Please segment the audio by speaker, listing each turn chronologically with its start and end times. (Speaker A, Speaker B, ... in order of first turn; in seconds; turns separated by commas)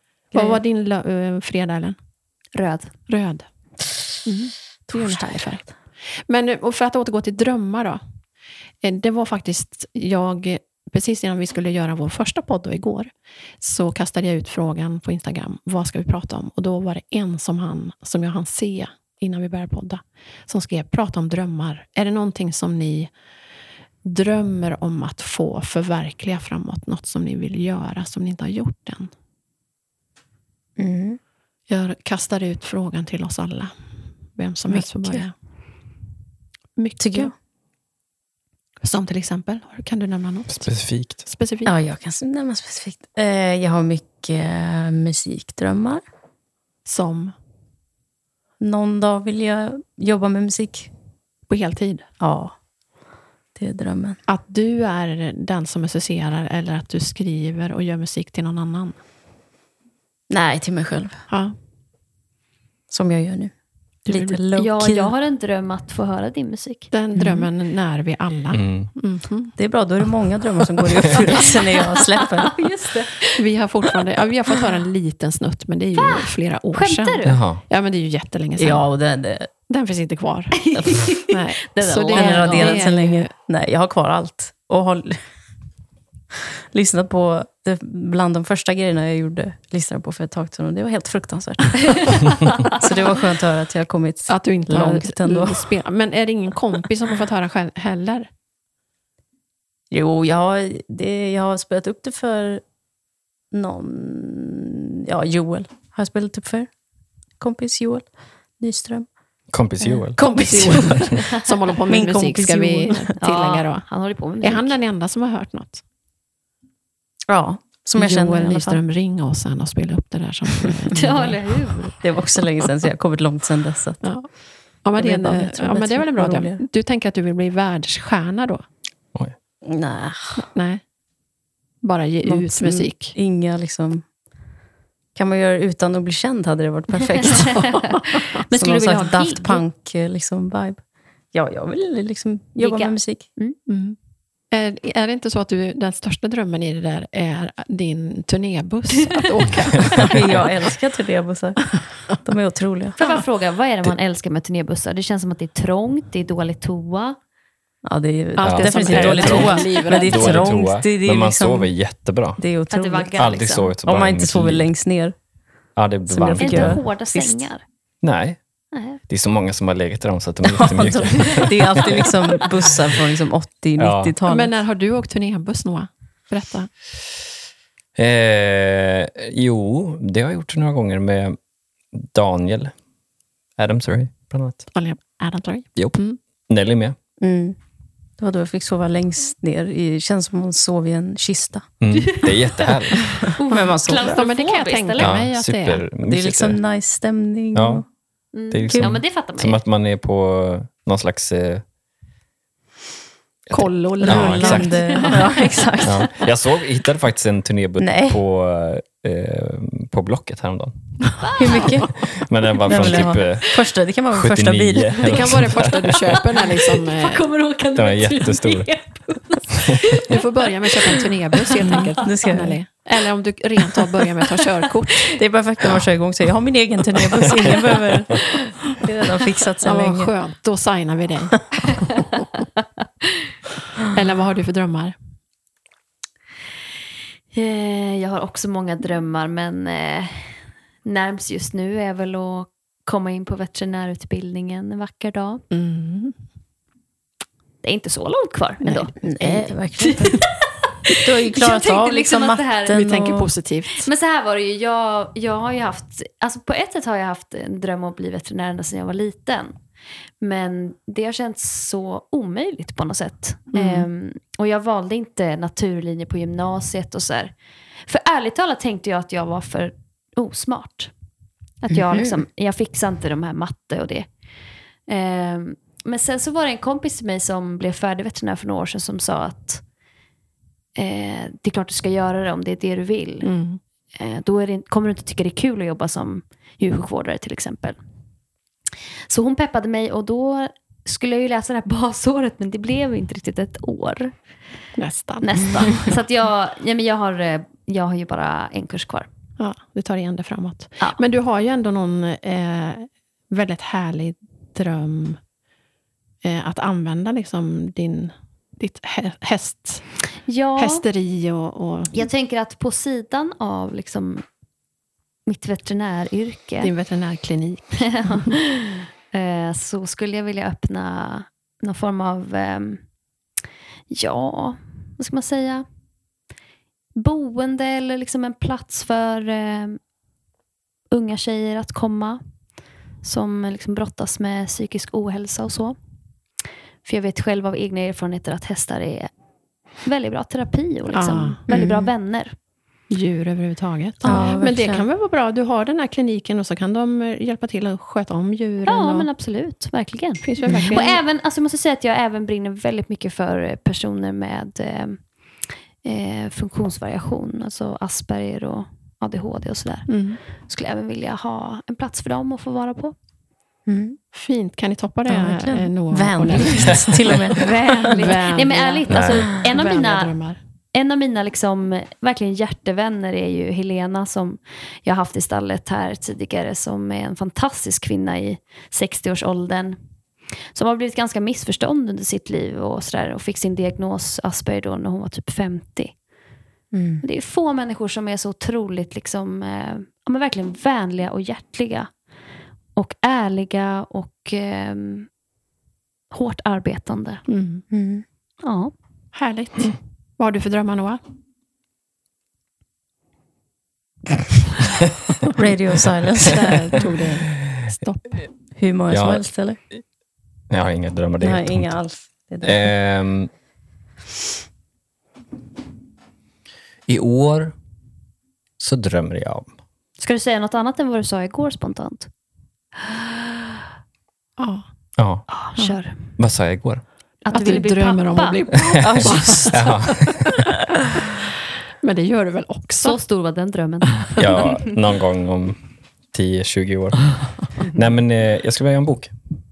Speaker A: 0.3-2.0, Speaker B: 2.5-2.9, Speaker A: 3.1-3.5, Speaker A: 4.2-5.7, Speaker C: 4.9-5.5, Speaker A: 6.3-8.0, Speaker A: 8.8-13.1, Speaker A: 13.6-23.1, Speaker A: 24.0-29.1, Speaker C: 30.8-31.2, Speaker A: 31.7-33.7, Speaker A: 34.4-35.3, Speaker C: 34.7-35.3, Speaker A: 36.8-37.3, Speaker C: 37.0-37.3, Speaker A: 38.8-40.7, Speaker D: 40.5-41.2, Speaker A: 41.2-41.7, Speaker C: 41.6-46.0, Speaker A: 46.9-47.3, Speaker C: 48.6-50.9, Speaker A: 51.5-52.1, Speaker C: 52.2-52.5, Speaker C: 53.5-54.2, Speaker A: 54.3-59.0, Speaker C: 60.3-61.2, Speaker A: 61.3-61.6, Speaker C: 62.9-63.5, Speaker C: 64.1-65.1, Speaker A: 64.1-64.4, Speaker B: 64.6-66.9, Speaker A: 66.9-69.5, Speaker C: 67.1-67.5, Speaker D: 68.5-68.9, Speaker C: 69.6-72.6, Speaker B: 71.8-73.4, Speaker A: 73.4-78.8, Speaker B: 76.0-77.4, Speaker D: 77.3-77.6, Speaker C: 78.6-79.5, Speaker A: 79.7-83.3, Speaker B: 80.6-82.9, Speaker C: 82.1-85.2, Speaker C: 86.7-95.7, Speaker A: 94.3-98.3, Speaker C: 99.9-102.6, Speaker C: 103.5-106.7, Speaker C: 107.4-109.1, Speaker D: 109.5-111.2, Speaker C: 109.8-111.2, Speaker A: 110.2-113.9, Speaker C: 111.9-113.1, Speaker B: 113.2-114.8, Speaker A: 114.4-115.8, Speaker C: 117.3-118.8, Speaker A: 118.0-121.4, Speaker B: 120.9-122.0, Speaker C: 122.0-124.1, Speaker A: 124.0-124.3, Speaker A: 124.8-128.6, Speaker C: 125.0-126.6, Speaker C: 129.6-130.4, Speaker A: 130.4-130.8, Speaker A: 131.8-133.2, Speaker C: 132.2-134.1, Speaker C: 135.1-137.8, Speaker B: 137.2-139.6, Speaker C: 138.5-140.8, Speaker C: 141.3-143.3, Speaker B: 142.6-143.6, Speaker A: 143.7-144.0, Speaker A: 144.5-150.5, Speaker C: 150.0-153.0, Speaker B: 153.0-157.2, Speaker C: 157.8-161.7, Speaker A: 158.4-160.5, Speaker D: 158.4-162.4, Speaker C: 162.4-163.2, Speaker B: 162.7-163.7, Speaker D: 163.2-164.7, Speaker C: 163.8-165.1, Speaker D: 165.8-166.8, Speaker C: 166.1-167.5, Speaker B: 166.4-167.6, Speaker D: 168.0-168.4, Speaker B: 168.7-169.0, Speaker D: 169.1-172.2, Speaker C: 170.4-174.5, Speaker D: 173.8-174.2, Speaker A: 174.3-176.7, Speaker D: 178.0-181.4, Speaker D: 181.9-182.7, Speaker D: 183.6-184.7, Speaker A: 184.7-186.2, Speaker D: 185.8-187.0, Speaker C: 187.2-187.6, Speaker C: 188.2-191.7, Speaker D: 191.8-193.2, Speaker B: 192.0-192.7, Speaker B: 193.3-195.2, Speaker C: 193.5-194.2, Speaker A: 193.5-195.8, Speaker D: 195.0-196.6, Speaker C: 196.0-197.8, Speaker D: 197.5-197.8, Speaker B: 198.3-199.6, Speaker D: 198.5-201.6, Speaker C: 198.7-199.0, Speaker D: 203.5-205.0, Speaker A: 203.5-205.2, Speaker C: 204.0-206.2, Speaker B: 204.6-205.4, Speaker D: 205.8-210.7, Speaker C: 207.8-208.2, Speaker B: 211.2-211.7, Speaker C: 211.4-211.9, Speaker D: 211.9-216.2, Speaker C: 212.7-215.5, Speaker A: 215.0-217.2, Speaker B: 216.1-222.0, Speaker D: 217.8-218.7, Speaker A: 220.0-225.1, Speaker C: 221.7-222.6, Speaker C: 225.1-230.1, Speaker A: 229.6-232.2, Speaker A: 233.8-234.9, Speaker B: 237.3-245.4, Speaker A: 245.5-246.1, Speaker B: 247.6-252.8, Speaker A: 248.6-249.5, Speaker C: 249.0-250.2, Speaker C: 250.9-253.3, Speaker A: 252.7-253.9, Speaker B: 253.8-259.6, Speaker B: 260.2-267.3, Speaker A: 263.5-263.9, Speaker B: 267.9-270.9, Speaker B: 271.6-274.1, Speaker C: 271.8-272.1, Speaker B: 274.9-279.6, Speaker B: 280.8-283.3, Speaker A: 283.2-283.6, Speaker B: 284.0-287.8, Speaker B: 289.1-294.1, Speaker A: 294.8-295.9, Speaker B: 295.2-299.1, Speaker A: 299.4-305.2, Speaker A: 306.2-309.9, Speaker B: 310.2-310.9, Speaker A: 310.6-312.0, Speaker B: 311.9-314.3, Speaker B: 315.3-316.7, Speaker A: 316.6-318.3, Speaker B: 317.9-322.8, Speaker B: 323.9-325.6, Speaker B: 326.9-329.8, Speaker B: 330.9-332.2, Speaker B: 333.0-335.8, Speaker B: 336.8-339.1, Speaker B: 339.8-342.4, Speaker A: 340.9-341.7, Speaker A: 342.9-349.1, Speaker B: 344.0-344.3, Speaker C: 344.1-344.9, Speaker B: 348.6-355.1, Speaker A: 350.2-351.0, Speaker C: 350.4-350.7, Speaker B: 355.8-359.9, Speaker A: 359.9-360.2, Speaker B: 360.4-362.9, Speaker C: 363.7-364.0, Speaker A: 364.1-370.4, Speaker C: 365.1-368.1, Speaker B: 367.3-370.1, Speaker D: 368.9-369.3, Speaker B: 370.7-379.8, Speaker B: 380.5-385.9, Speaker C: 386.7-387.0, Speaker B: 387.0-391.9, Speaker B: 392.8-395.1, Speaker B: 396.1-397.2, Speaker A: 397.3-397.6, Speaker C: 397.7-398.0, Speaker B: 398.4-398.7, Speaker A: 399.1-401.0, Speaker C: 405.3-407.2, Speaker A: 406.3-408.2, Speaker C: 408.6-409.6, Speaker D: 408.9-409.8, Speaker D: 410.5-411.8, Speaker C: 411.2-412.7, Speaker D: 412.4-413.3, Speaker D: 416.9-417.5, Speaker D: 418.6-419.5, Speaker B: 420.0-422.1, Speaker B: 422.8-423.6, Speaker A: 424.4-424.6, Speaker D: 425.0-425.3, Speaker B: 425.3-426.2, Speaker D: 426.2-426.8, Speaker B: 427.2-428.8, Speaker A: 427.3-430.0, Speaker D: 428.8-430.5, Speaker C: 428.8-429.8, Speaker A: 431.8-433.0, Speaker B: 432.8-434.7, Speaker D: 434.2-435.6, Speaker D: 436.1-439.1